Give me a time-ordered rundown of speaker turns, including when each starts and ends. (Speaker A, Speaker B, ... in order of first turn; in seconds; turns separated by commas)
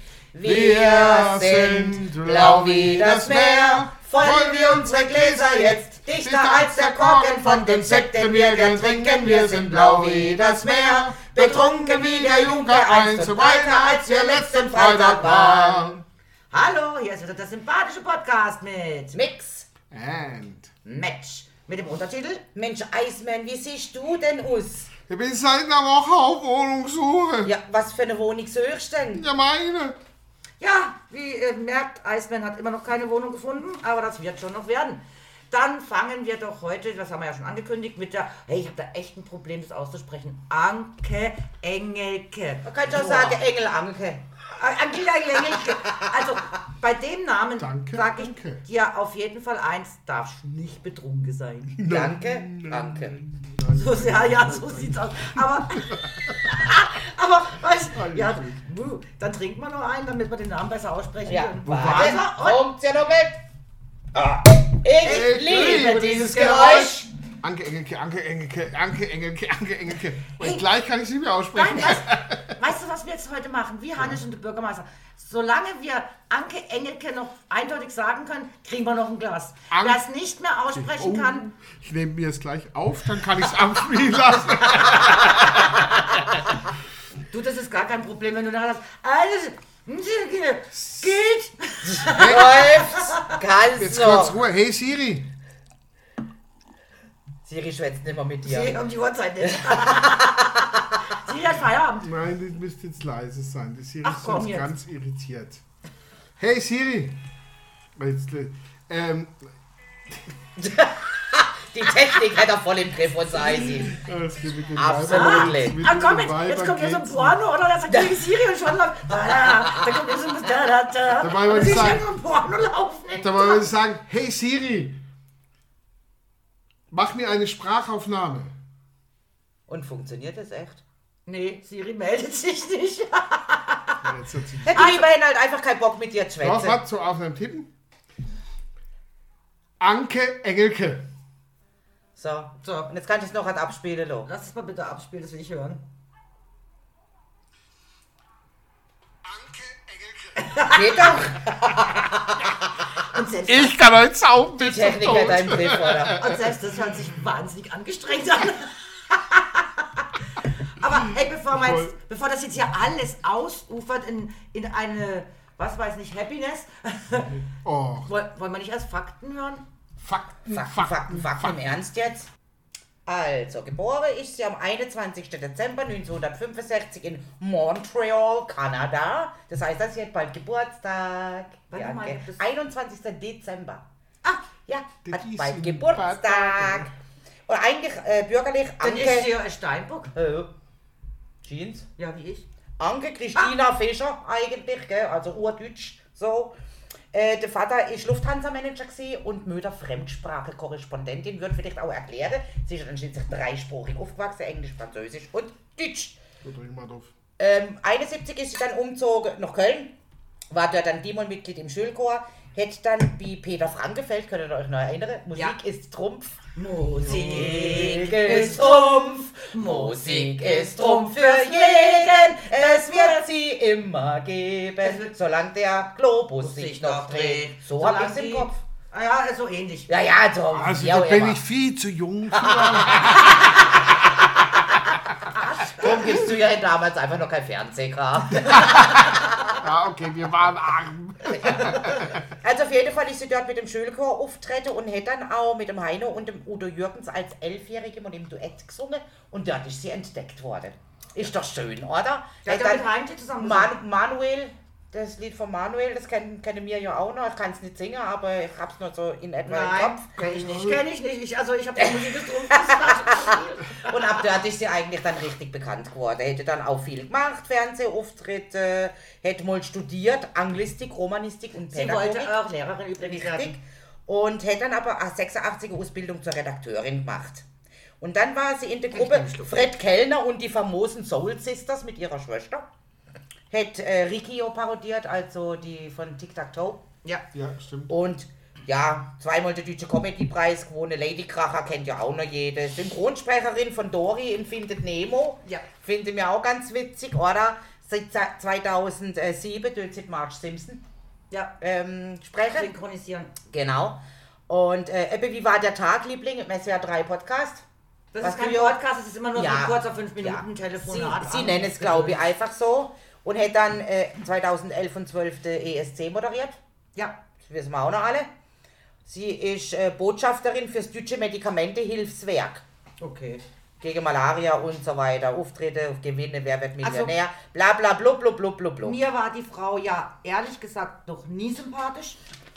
Speaker A: 0.3-16.0, Speaker B: 0.4-16.0, Speaker C: 16.5-19.2, Speaker A: 19.1-19.7, Speaker B: 19.9-20.7, Speaker C: 20.9-22.4, Speaker A: 22.6-24.9, Speaker B: 25.1-27.5, Speaker A: 27.4-29.3, Speaker B: 29.1-30.0, Speaker C: 30.6-43.4, Speaker A: 42.6-44.2, Speaker C: 44.5-51.8, Speaker B: 47.6-48.6, Speaker B: 51.8-56.5, Speaker A: 51.8-53.2, Speaker C: 53.7-62.6, Speaker B: 57.9-58.6, Speaker A: 61.2-63.4, Speaker B: 61.7-62.2, Speaker A: 64.1-67.1, Speaker B: 65.0-72.6, Speaker C: 65.1-66.9, Speaker C: 71.5-81.5, Speaker B: 79.7-80.0, Speaker B: 80.7-86.0, Speaker C: 87.3-93.3, Speaker B: 90.7-91.2, Speaker A: 91.9-94.4, Speaker B: 92.1-92.9, Speaker B: 93.8-95.3, Speaker A: 97.5-98.8, Speaker C: 98.4-102.1, Speaker A: 99.4-100.7, Speaker B: 102.0-105.6, Speaker C: 104.0-104.7, Speaker B: 106.4-107.2, Speaker B: 108.0-109.5, Speaker A: 110.6-114.0, Speaker B: 113.3-117.4, Speaker A: 114.8-115.8, Speaker C: 115.1-123.7, Speaker A: 117.9-118.2, Speaker B: 121.2-122.1, Speaker B: 123.2-125.0, Speaker B: 126.9-128.5, Speaker A: 129.7-130.8, Speaker C: 131.3-134.1, Speaker B: 134.0-134.8, Speaker A: 134.7-136.8, Speaker C: 134.7-135.1, Speaker B: 136.4-137.7, Speaker B: 139.8-141.1, Speaker A: 142.2-144.3, Speaker C: 142.6-142.9, Speaker C: 144.3-145.8, Speaker B: 149.2-150.4, Speaker C: 150.4-151.1, Speaker A: 150.7-152.5, Speaker C: 153.1-153.8, Speaker B: 153.4-156.5, Speaker A: 154.6-156.2, Speaker C: 156.2-167.4, Speaker B: 161.5-161.9, Speaker B: 167.3-168.1, Speaker C: 168.1-169.7, Speaker B: 170.0-171.6, Speaker A: 170.5-172.3, Speaker A: 173.1-183.9, Speaker C: 181.7-182.4, Speaker A: 184.7-186.9, Speaker B: 185.1-186.9, Speaker A: 187.5-189.4, Speaker C: 188.8-190.1, Speaker A: 190.2-190.5, Speaker A: 191.4-191.9, Speaker C: 192.0-192.5, Speaker A: 192.8-196.6, Speaker A: 197.1-206.2, Speaker B: 206.4-207.1, Speaker A: 207.4-209.9, Speaker A: 210.5-216.4, Speaker C: 216.6-223.2, Speaker B: 217.0-217.7, Speaker A: 217.1-228.6, Speaker C: 224.8-225.1, Speaker C: 226.4-229.9, Speaker A: 229.9-231.4, Speaker B: 230.5-233.5, Speaker A: 232.3-233.7, Speaker C: 235.4-236.0, Speaker A: 235.6-239.5, Speaker B: 238.4-239.0, Speaker B: 239.6-242.2, Speaker A: 241.3-260.1, Speaker C: 252.4-253.8, Speaker C: 259.5-264.2, Speaker B: 260.2-260.8, Speaker A: 261.8-272.4, Speaker C: 271.7-273.6, Speaker A: 273.0-277.5, Speaker A: 278.0-282.7, Speaker C: 278.9-279.5, Speaker A: 283.5-286.8, Speaker B: 287.3-287.9, Speaker A: 287.9-300.8, Speaker C: 301.3-301.6, Speaker A: 301.6-302.7, Speaker C: 302.5-303.3, Speaker A: 303.5-307.6, Speaker C: 308.1-312.2, Speaker A: 308.2-308.8, Speaker A: 309.3-316.6, Speaker A: 317.4-318.3, Speaker A: 319.1-322.6, Speaker C: 323.0-323.4, Speaker A: 323.8-329.0, Speaker C: 326.8-327.1, Speaker C: 328.8-332.2